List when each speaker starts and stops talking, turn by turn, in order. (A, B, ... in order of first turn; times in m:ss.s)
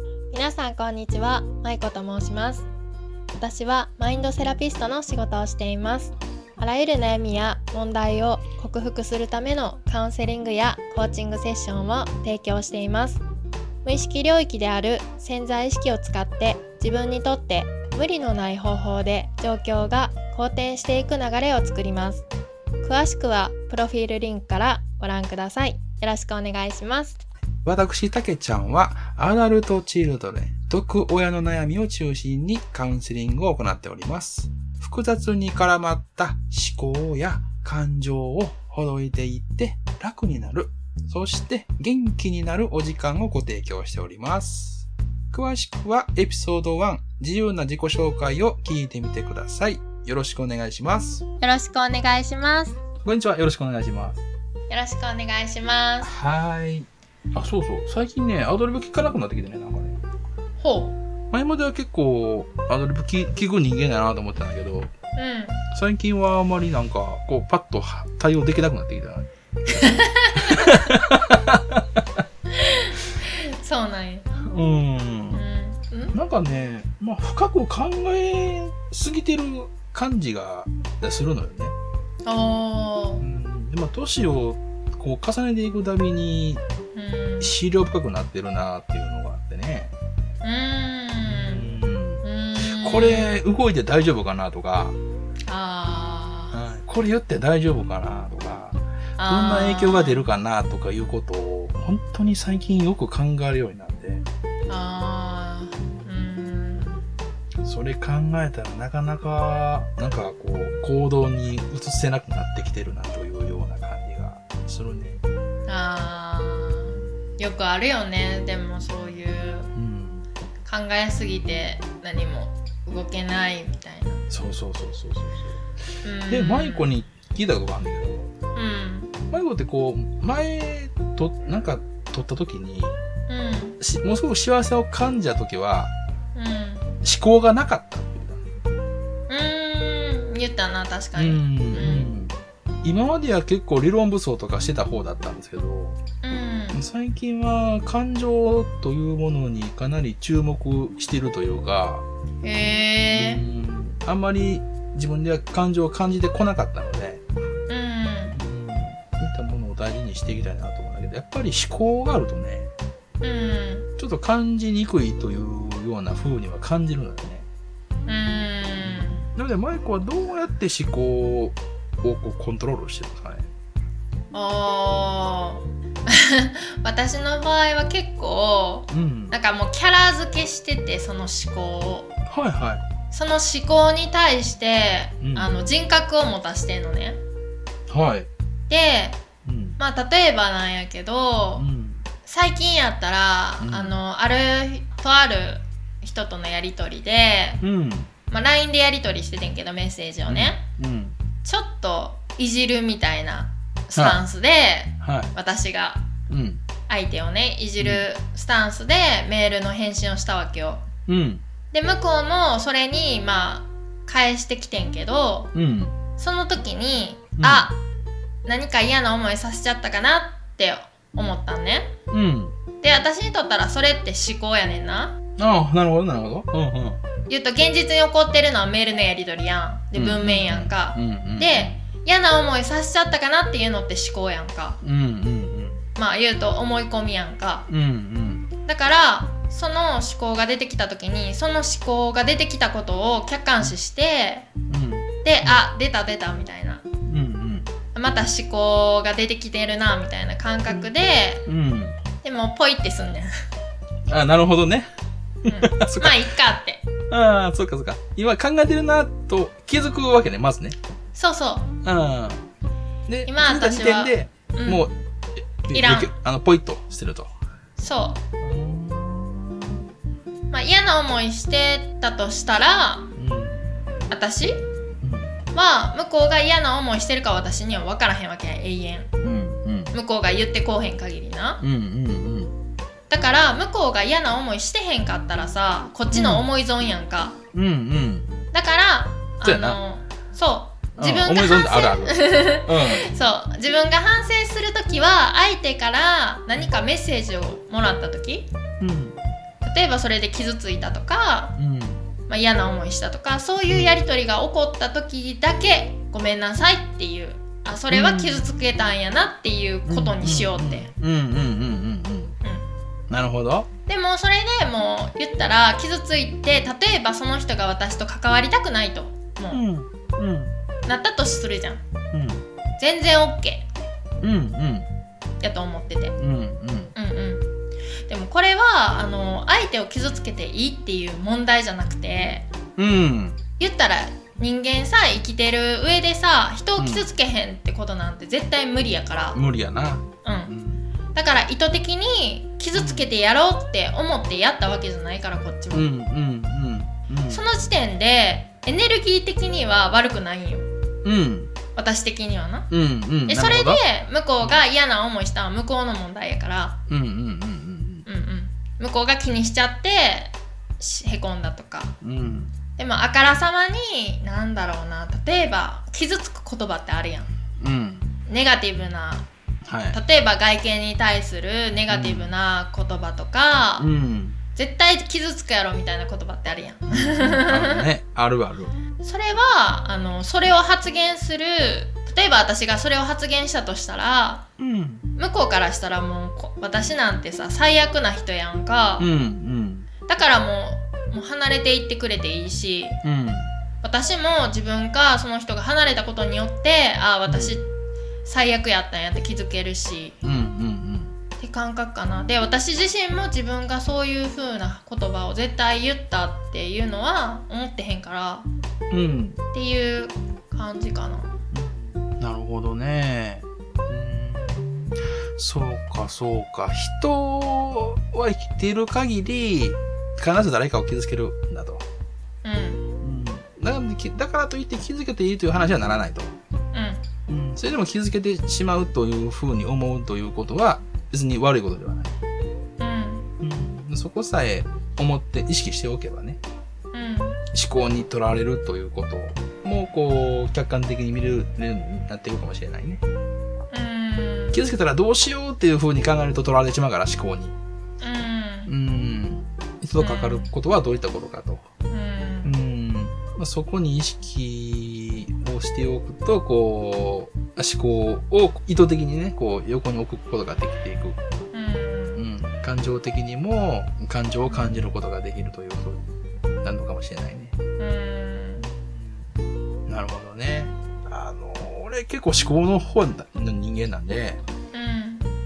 0:00.3-0:02.7 A
0:03.4-0:13.2 A
0:13.8-0:22.2 A
0:22.8-0:27.2 A
0:27.6-0:51.2 B
0:51.4-0:52.8 A
0:53.0-0:54.2 B
0:54.7-0:56.1 A
0:56.0-1:00.0 B
1:00.6-1:01.0 A
1:01.3-1:04.9 B
1:05.2-1:05.6 A
1:05.7-1:12.0 B
1:09.7-1:10.8 A
1:12.5-1:14.3 A
1:14.5-1:15.4 B
1:15.3-1:16.2 A
1:16.1-1:21.8 B
1:22.3-1:23.3 A
1:23.2-1:26.6 B
1:27.0-1:27.5 A
1:27.4-1:29.9 B
1:30.4-1:33.4 A
1:31.2-1:35.0 B
1:35.5-1:36.6 A
1:36.5-1:44.3 B
1:39.2-1:40.3 A
1:44.7-1:47.0 A
1:47.6-1:55.2 B
1:55.7-1:59.7 A
1:59.8-2:00.3 B
2:00.6-2:04.2 A
2:04.3-2:05.6 B
2:06.0-2:06.9 A
2:06.3-2:08.3 B
2:08.5-2:09.2 A
2:09.3-2:13.0 B
2:13.3-2:13.8 A
2:13.8-2:15.9 B
2:16.4-2:16.9 A
2:17.0-2:18.5 B
2:19.3-2:22.1 A
2:21.2-2:26.0 B
2:26.2-2:26.8 A
2:26.7-2:32.0 B
2:32.4-2:33.4 A
2:33.1-2:37.2 B
2:37.7-2:38.4 A
2:38.3-2:42.7 B
2:43.2-2:43.9 A
2:44.0-2:47.5 B
2:48.1-2:49.2 A
2:48.8-2:53.5 B
2:54.3-3:02.1 A
2:58.9-2:59.4 B
3:02.3-3:02.9 B
3:03.1-3:07.2 A
3:05.2-3:05.6 B
3:07.9-3:08.3 B
3:08.7-3:09.2 A
3:09.4-3:09.8 B
3:09.8-3:11.7 A
3:11.6-3:12.0 B
3:12.2-3:17.6 A
3:13.6-3:14.0 B
3:17.6-3:18.1 B
3:18.3-3:20.6 A
3:20.3-3:21.2 B
3:21.4-3:26.1 A
3:24.0-3:24.2 B
3:25.0-3:25.4 B
3:26.3-3:26.6 B
3:26.9-3:30.9 A
3:27.8-3:28.1 B
3:31.1-3:31.4 B
3:31.7-3:35.5 A
3:35.5-3:36.0 B
3:36.2-3:37.8 A
3:37.4-3:37.7 B
3:38.5-3:41.9 A
3:42.1-3:42.6 B
3:42.8-3:45.2 A
3:45.4-3:47.0 B
3:47.3-3:54.8 A
3:49.9-3:51.8 B
3:54.8-3:55.8 B
3:56.0-3:57.7 A
3:57.7-3:58.5 B
3:58.7-4:04.5 A
4:04.7-4:05.6 B
4:05.2-4:06.8 A
4:07.1-4:07.7 B
4:07.9-4:11.4 A
4:11.5-4:12.0 B
4:12.2-4:13.3 A
4:14.1-4:14.9 B
4:15.4-4:16.2 B
4:15.5-4:16.9 A
4:17.1-4:20.8 B
4:21.2-4:21.7 A
4:21.8-4:22.5 B
4:23.1-4:25.0 B
4:23.3-4:24.9 A
4:25.6-4:27.3 B
4:25.7-4:26.1 A
4:27.8-4:28.2 A
4:28.4-4:29.8 B
4:30.5-4:33.1 A
4:33.2-4:33.7 B
4:34.1-4:34.6 A
4:35.0-4:35.3 B
4:35.5-4:39.1 A
4:39.2-4:39.9 B
4:39.9-4:41.6 A
4:41.6-4:42.6 B
4:43.1-4:47.4 A
4:46.1-4:46.5 B
4:47.5-4:48.4 B
4:48.5-4:58.5 A
4:49.4-4:49.8 B
4:51.0-4:53.1 B
4:58.8-4:59.2 B
4:59.6-5:01.6 A
5:01.6-5:02.1 B
5:02.3-5:10.9 A
5:03.7-5:04.0 B
5:07.9-5:08.5 B
5:09.9-5:12.4 B
5:12.4-5:12.7 A
5:13.1-5:13.7 B
5:13.9-5:19.6 A
5:19.5-5:20.6 B
5:20.9-5:21.8 A
5:22.1-5:22.4 B
5:22.8-5:23.7 A
5:24.2-5:24.9 B
5:25.4-5:26.2 A
5:26.2-5:26.9 B
5:27.0-5:27.5 A
5:28.1-5:32.5 A
5:32.8-5:33.4 B
5:33.6-5:39.4 A
5:36.8-5:37.1 B
5:39.3-5:40.8 B
5:40.2-5:40.5 A
5:41.1-5:45.9 A
5:42.8-5:43.1 B
5:45.7-5:47.4 B
5:47.3-5:50.7 A
5:51.0-5:51.5 B
5:51.7-5:52.7 A
5:52.7-5:53.8 B
5:53.3-5:56.8 A
5:56.9-5:58.1 B
5:58.1-6:02.0 A
6:02.0-6:02.5 B
6:02.8-6:07.3 A
6:07.6-6:08.1 B
6:08.3-6:09.3 A
6:09.7-6:10.0 B
6:09.9-6:13.9 A
6:11.9-6:12.4 B
6:13.8-6:14.4 B
6:14.6-6:17.9 A
6:16.9-6:18.8 B
6:19.0-6:24.4 A
6:24.6-6:25.1 B
6:25.2-6:29.1 A
6:29.0-6:29.9 B
6:30.1-6:33.0 A
6:33.0-6:33.5 B
6:33.8-6:37.7 A
6:37.3-6:37.6 B
6:38.2-6:40.2 A
6:40.2-6:41.1 B
6:41.4-6:48.5 A
6:48.9-6:49.4 B
6:49.5-6:51.3 A
6:51.5-7:01.9 B
7:02.4-7:02.8 A
7:03.0-7:06.4 B
7:06.7-7:07.0 A
7:07.3-7:12.2 B
7:12.8-7:13.3 A
7:13.4-7:16.4 B
7:16.9-7:17.4 A
7:17.5-7:23.0 B
7:23.7-7:24.6 A
7:24.5-7:27.6 B
7:28.0-7:28.7 A
7:28.7-7:31.7 B
7:30.0-7:30.5 A
7:31.9-7:32.5 A
7:32.4-7:41.2 B
7:41.5-7:42.2 A
7:42.2-7:46.1 B
7:44.5-7:44.8 A
7:46.6-7:47.6 B
7:47.8-7:48.6 A
7:48.6-7:49.3 B
7:49.9-7:54.4 B
7:54.7-7:55.3 A